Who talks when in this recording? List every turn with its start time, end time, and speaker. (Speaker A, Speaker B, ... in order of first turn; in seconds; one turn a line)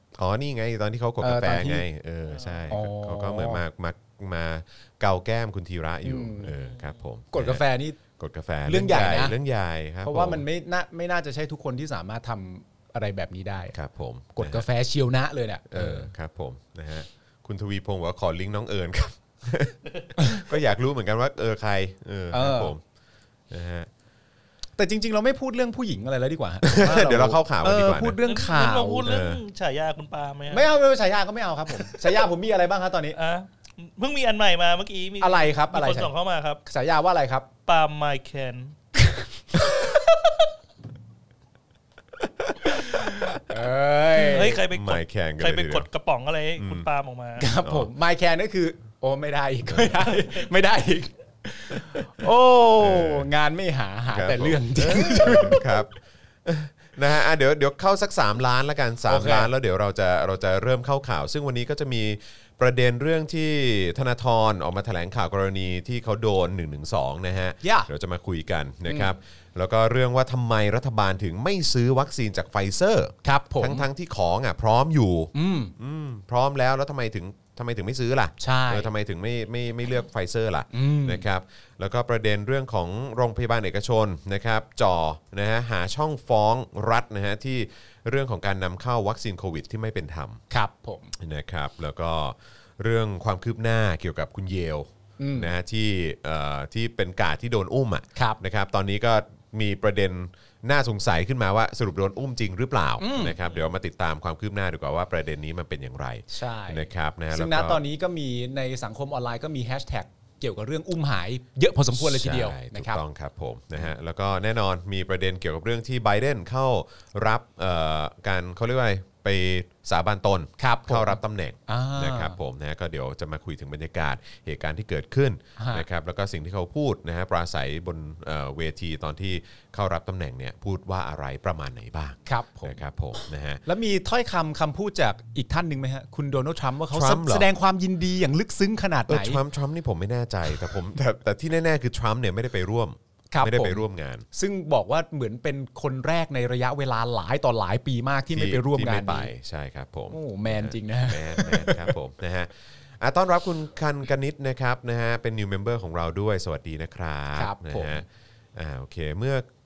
Speaker A: 0.2-7.6
Speaker B: 1.2-1.8
Speaker C: 2.3-2.7
Speaker B: 2.7-3.6
Speaker B: 6.0-6.5
Speaker C: 6.6-6.9
Speaker B: 7.3-8.0
Speaker A: 8.2-10.4
Speaker B: 8.7-9.3
Speaker B: 10.0-13.8
Speaker A: 13.7-14.7
Speaker B: 14.4-16.1
Speaker A: 15.7-22.8
Speaker B: 20.2-20.4
Speaker B: 22.3-22.7
Speaker A: 23.5-23.9
Speaker B: 24.8-29.1
Speaker A: 26.6-28.2
Speaker C: 28.2-30.7
Speaker A: 29.0-29.4
Speaker B: 30.5-33.1
Speaker C: 31.8-32.0
Speaker C: 33.1-36.6
Speaker B: 35.2-36.1
Speaker B: 36.6-37.5
Speaker C: 37.6-38.7
Speaker A: 42.2-43.3
Speaker B: 42.7-44.6
Speaker C: 44.1-47.5
Speaker A: 44.6-45.9
Speaker A: 46.6-46.9
Speaker B: 47.4-55.7
Speaker A: 47.6-47.9
Speaker A: 49.6-50.1
Speaker A: 52.8-53.3
Speaker A: 54.1-55.9
Speaker A: 56.4-90.4
Speaker B: 59.1-59.5
Speaker B: 67.6-67.9
Speaker B: 73.2-73.8
Speaker B: 75.3-75.7
Speaker B: 78.4-78.9
Speaker B: 80.7-81.2
Speaker B: 90.5-91.1
Speaker A: 91.2-107.8
Speaker B: 95.2-95.5
Speaker B: 103.0-103.3
Speaker B: 106.3-113.0
Speaker A: 111.9-133.6
Speaker B: 120.6-122.4
Speaker B: 125.6-125.8
Speaker B: 132.2-132.8
Speaker B: 133.7-139.4
Speaker A: 136.9-137.5
Speaker A: 139.1-144.2
Speaker B: 143.3-149.3
Speaker A: 148.3-159.5
Speaker B: 150.1-151.9
Speaker B: 157.3-158.0